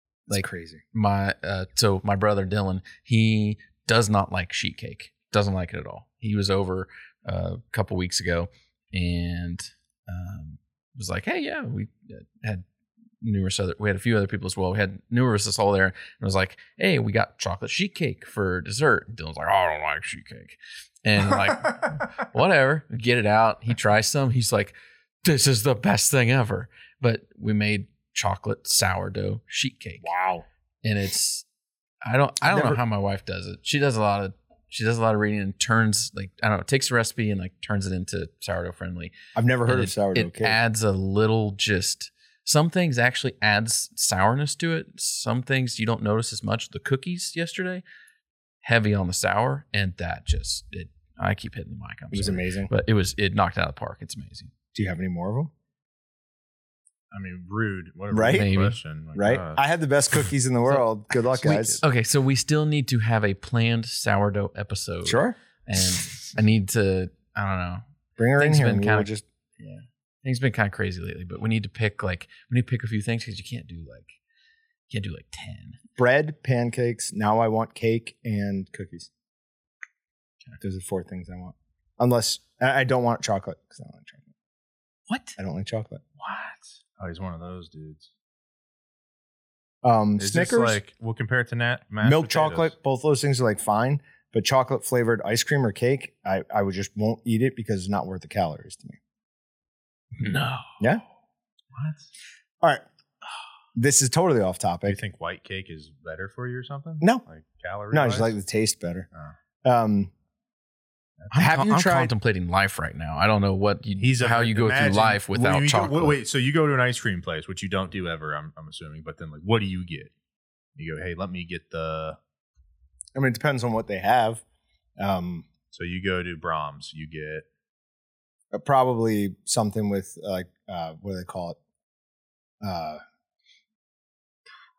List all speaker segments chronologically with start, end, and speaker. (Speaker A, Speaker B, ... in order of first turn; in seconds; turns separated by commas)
Speaker A: 0.3-0.8, Speaker B: 0.3-12.7, Speaker B: 13.2-30.1, Speaker A: 30.0-30.4, Speaker B: 30.8-31.4, Speaker B: 32.0-47.8, Speaker A: 32.4-32.8, Speaker A: 39.3-40.6, Speaker B: 48.6-54.5, Speaker A: 52.1-52.7, Speaker A: 54.7-55.5, Speaker C: 57.1-59.6, Speaker A: 58.1-58.5, Speaker B: 58.3-58.8, Speaker A: 59.1-61.8, Speaker C: 61.3-61.8, Speaker B: 61.8-67.8, Speaker A: 65.0-65.4, Speaker A: 68.2-69.2, Speaker B: 68.4-74.2, Speaker B: 74.9-75.8, Speaker A: 76.0-79.1, Speaker A: 80.6-84.3, Speaker B: 85.1-85.4, Speaker A: 85.4-86.0, Speaker C: 86.2-88.1, Speaker A: 89.8-90.8, Speaker C: 90.2-92.7, Speaker A: 92.0-99.0, Speaker B: 100.2-100.7, Speaker C: 101.7-102.1, Speaker A: 103.7-105.0, Speaker C: 104.9-108.3, Speaker A: 107.9-109.1, Speaker A: 109.6-110.1, Speaker B: 111.3-116.2, Speaker A: 111.3-112.1, Speaker C: 114.0-120.1, Speaker C: 120.8-122.2, Speaker A: 123.1-124.4, Speaker A: 125.0-125.5, Speaker C: 125.7-127.4, Speaker A: 128.5-131.6, Speaker A: 132.6-133.0